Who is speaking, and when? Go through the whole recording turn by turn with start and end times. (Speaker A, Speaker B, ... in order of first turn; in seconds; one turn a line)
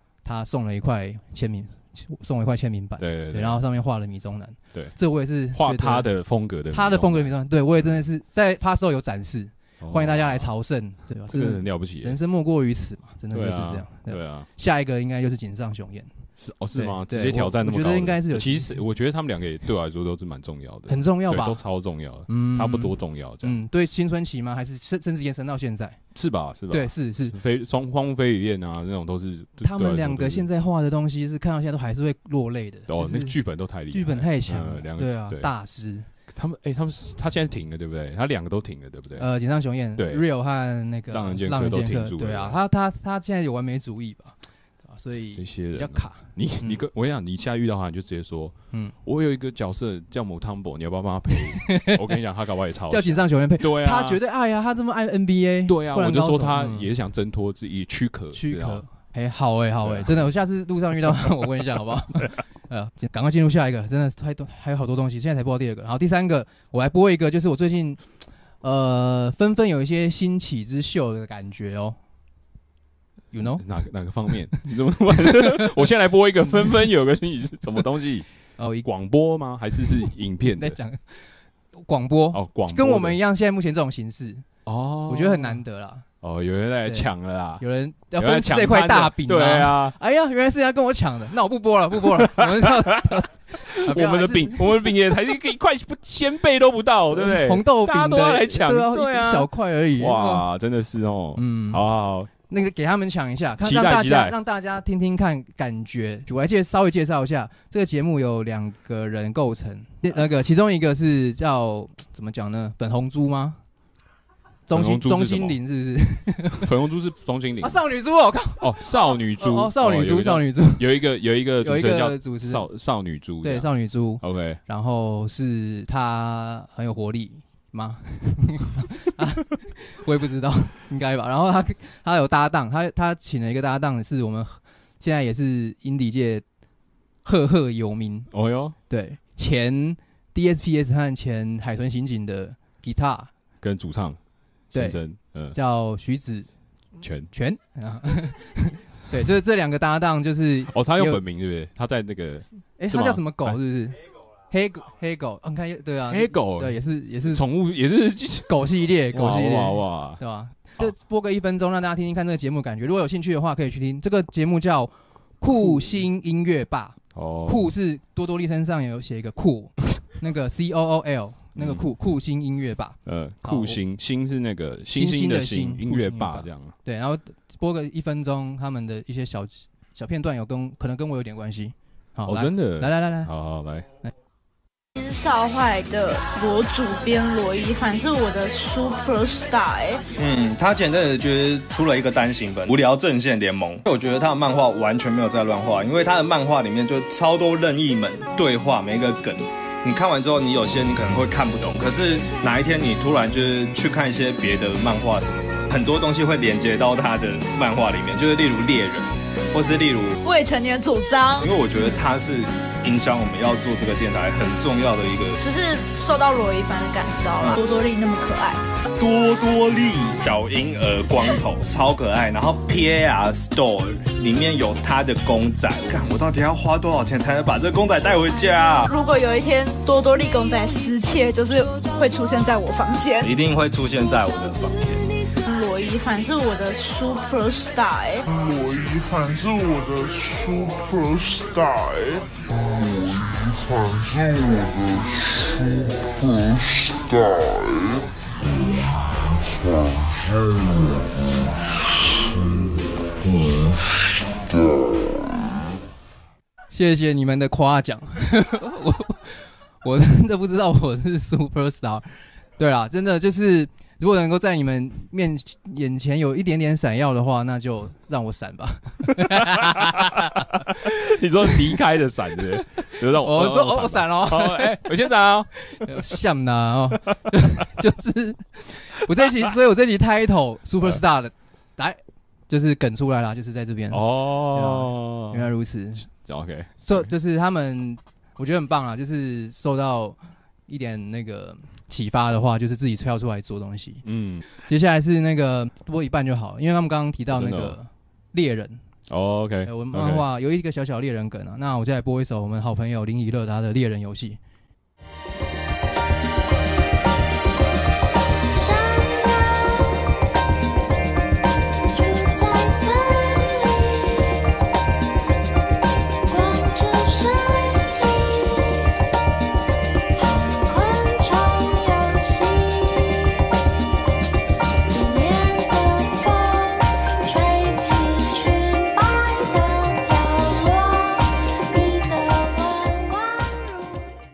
Speaker A: 0.2-6.1
Speaker B: 3.0-3.6
Speaker B: 5.5-8.0
Speaker A: 6.7-16.1
Speaker B: 9.8-10.5
Speaker B: 11.3-12.2
Speaker B: 13.3-14.5
Speaker B: 16.4-23.6
Speaker A: 16.7-18.8
Speaker A: 20.9-21.6
Speaker A: 22.3-26.0
Speaker B: 26.1-30.5
Speaker A: 26.7-27.4
Speaker A: 29.6-33.4
Speaker B: 32.9-35.5
Speaker A: 33.9-36.1
Speaker B: 36.3-39.3
Speaker A: 39.2-46.8
Speaker B: 40.0-40.3
Speaker B: 41.1-42.6
Speaker B: 45.3-54.2
Speaker A: 51.3-52.0
Speaker A: 52.9-56.9
Speaker B: 55.7-58.8
Speaker A: 58.3-68.0
Speaker B: 59.8-60.3
Speaker A: 68.6-72.0
Speaker A: 73.3-73.6
Speaker B: 73.6-78.3
Speaker A: 75.2-75.9
Speaker A: 76.5-76.8
Speaker A: 78.6-78.9
Speaker B: 78.8-80.8
Speaker A: 79.9-84.5
Speaker B: 82.3-83.2
Speaker B: 84.7-85.6
Speaker A: 85.1-86.0
Speaker B: 86.2-87.6
Speaker A: 86.9-94.9
Speaker B: 88.2-90.0
Speaker B: 92.0-102.3
Speaker A: 97.1-100.5
Speaker A: 101.4-101.8
Speaker A: 102.5-113.6
Speaker B: 103.6-104.3
Speaker A: 114.7-116.7
Speaker B: 114.7-115.6
Speaker B: 116.6-117.8
Speaker A: 117.6-121.0
Speaker B: 118.6-124.6
Speaker A: 121.6-122.7
Speaker A: 123.4-136.4
Speaker A: 137.2-138.3
Speaker B: 138.3-138.8
Speaker A: 138.9-143.3
Speaker B: 143.6-144.2
Speaker B: 144.7-145.6
Speaker A: 144.7-145.0
Speaker A: 145.5-146.5
Speaker B: 147.0-147.3
Speaker A: 147.3-151.2
Speaker B: 150.7-153.6
Speaker A: 152.8-154.0
Speaker A: 154.5-157.4
Speaker B: 156.1-158.6
Speaker A: 158.5-173.8
Speaker B: 159.1-160.2
Speaker B: 165.6-166.0
Speaker B: 167.2-167.7
Speaker B: 171.6-171.9
Speaker B: 173.1-176.7
Speaker A: 174.9-183.3
Speaker B: 182.3-183.9
Speaker C: 185.0-190.0
Speaker D: 190.2-210.2
Speaker C: 210.2-211.5
Speaker D: 211.4-215.4
Speaker C: 215.4-218.6
Speaker D: 219.0-228.9
Speaker C: 228.9-233.3
Speaker D: 233.2-235.1
Speaker C: 235.5-238.3
Speaker E: 238.3-248.1
Speaker A: 256.7-270.8
Speaker B: 269.2-276.1
Speaker A: 272.9-275.0
Speaker A: 275.6-282.0
Speaker B: 277.3-277.6
Speaker A: 282.5-286.1
Speaker B: 283.9-285.5
Speaker B: 286.1-287.1
Speaker A: 286.8-294.0
Speaker B: 294.0-294.4
Speaker A: 294.7-298.8
Speaker B: 297.3-297.8
Speaker B: 299.1-300.2
Speaker A: 299.6-304.4
Speaker F: 308.5-310.1
Speaker F: 311.9-314.4
Speaker F: 316.3-319.0
Speaker F: 320.2-323.6
Speaker F: 324.8-333.9